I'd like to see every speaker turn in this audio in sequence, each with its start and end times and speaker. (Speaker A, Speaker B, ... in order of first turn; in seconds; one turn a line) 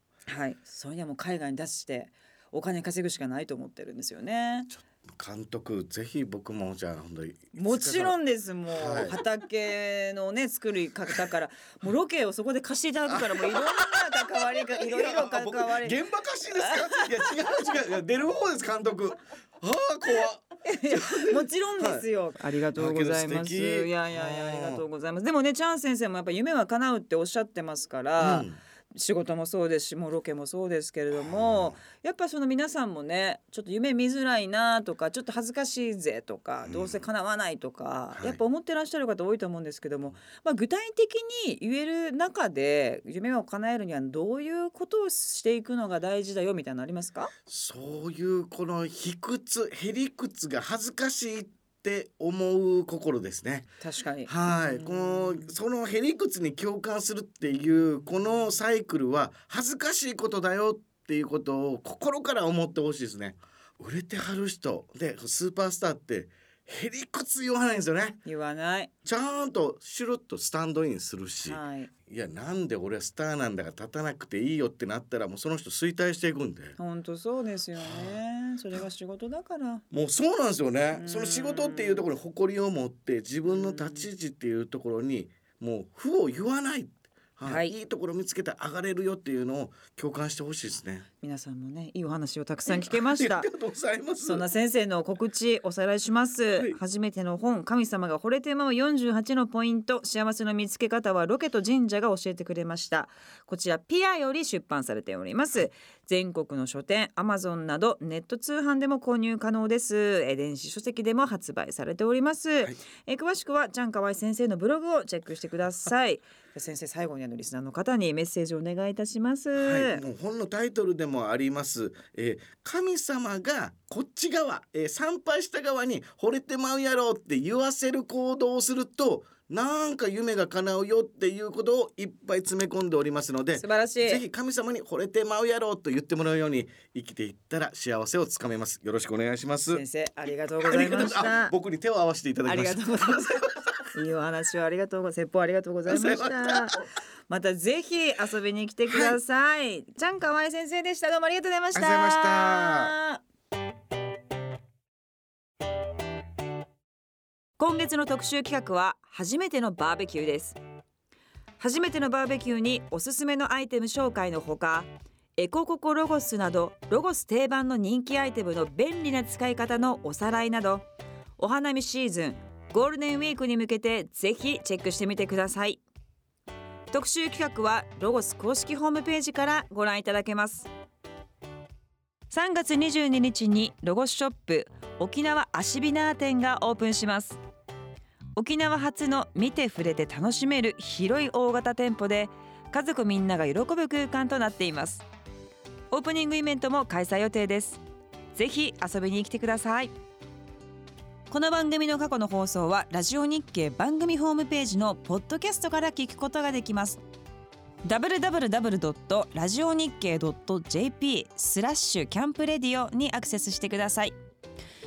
Speaker A: 0.3-4.7
Speaker B: 4.7-8.2
Speaker A: 7.5-16.0
Speaker B: 8.7-9.2
Speaker B: 13.1-22.1
Speaker A: 16.6-17.4
Speaker A: 20.6-47.3
Speaker B: 22.7-24.8
Speaker B: 28.2-28.6
Speaker B: 31.1-31.8
Speaker B: 36.6-37.0
Speaker B: 38.1-38.4
Speaker B: 47.5-53.7
Speaker A: 53.8-55.5
Speaker B: 54.3-68.2
Speaker A: 68.2-68.9
Speaker B: 69.0-76.8
Speaker A: 71.4-71.9
Speaker A: 76.8-79.8
Speaker B: 77.7-78.2
Speaker B: 79.9-91.1
Speaker A: 80.9-82.1
Speaker A: 83.5-84.1
Speaker A: 87.4-87.7
Speaker A: 91.2-93.5
Speaker B: 92.7-94.5
Speaker A: 94.2-120.0
Speaker B: 119.5-139.8
Speaker A: 133.6-134.2
Speaker A: 139.7-141.5
Speaker B: 140.6-143.8
Speaker A: 142.4-143.4
Speaker A: 143.9-153.2
Speaker B: 145.9-146.8
Speaker B: 148.9-149.2
Speaker B: 151.7-152.9
Speaker A: 157.6-160.6
Speaker A: 161.6-170.8
Speaker A: 171.4-175.8
Speaker A: 176.9-180.7
Speaker A: 182.3-187.4
Speaker A: 188.3-195.1
Speaker A: 195.9-197.8
Speaker A: 198.3-199.9
Speaker A: 201.3-207.0
Speaker A: 207.8-214.1